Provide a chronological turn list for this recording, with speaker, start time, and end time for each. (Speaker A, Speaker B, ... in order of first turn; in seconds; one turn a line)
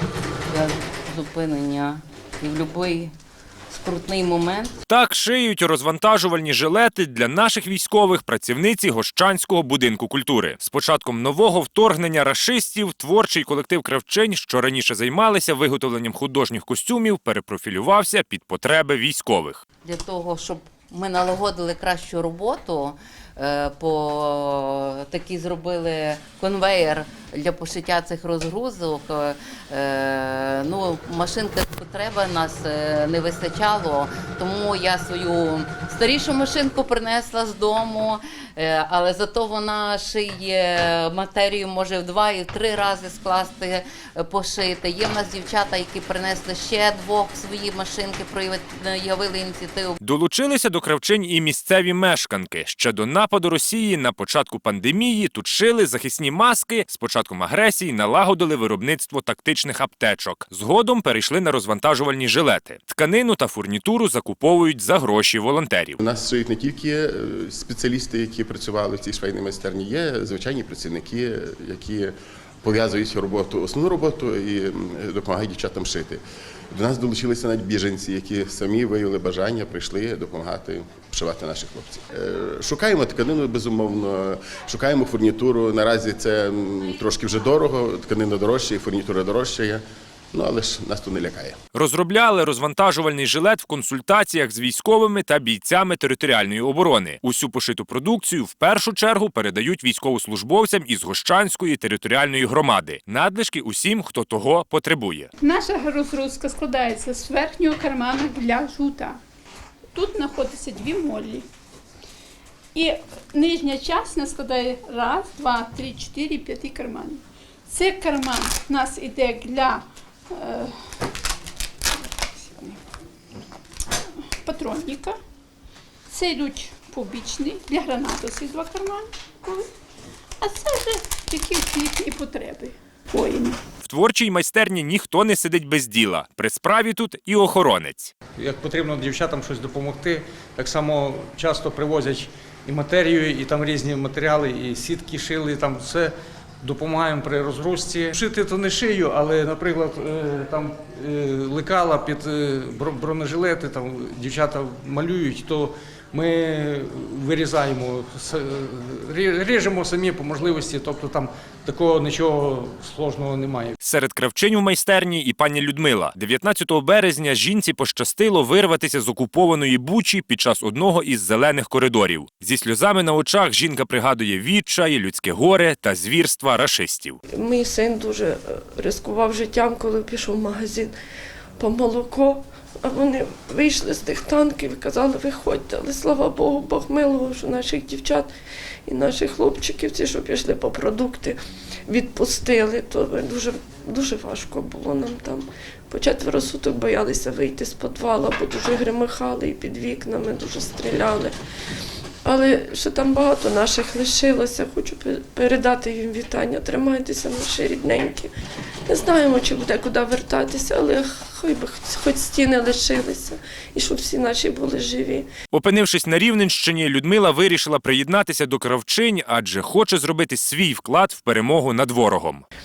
Speaker A: 0.5-3.1
Speaker A: 3.7-4.8
Speaker B: 4.9-19.6
Speaker A: 19.8-50.0
Speaker B: 50.0-66.0
Speaker C: 66.0-76.2
Speaker C: 76.7-89.8
Speaker C: 90.3-91.6
Speaker B: 91.7-105.3
Speaker D: 105.4-109.2
Speaker D: 109.9-111.5
Speaker D: 112.7-120.8
Speaker D: 122.0-122.8
Speaker D: 124.4-125.2
Speaker D: 126.1-129.7
Speaker D: 130.4-133.6
Speaker B: 133.8-138.1
Speaker E: 138.4-163.8
Speaker B: 163.8-177.2
Speaker F: 177.3-180.9
Speaker F: 181.6-188.3
Speaker F: 188.9-191.4
Speaker F: 191.9-201.3
Speaker F: 202.2-208.3
Speaker F: 208.9-215.3
Speaker B: 215.5-222.4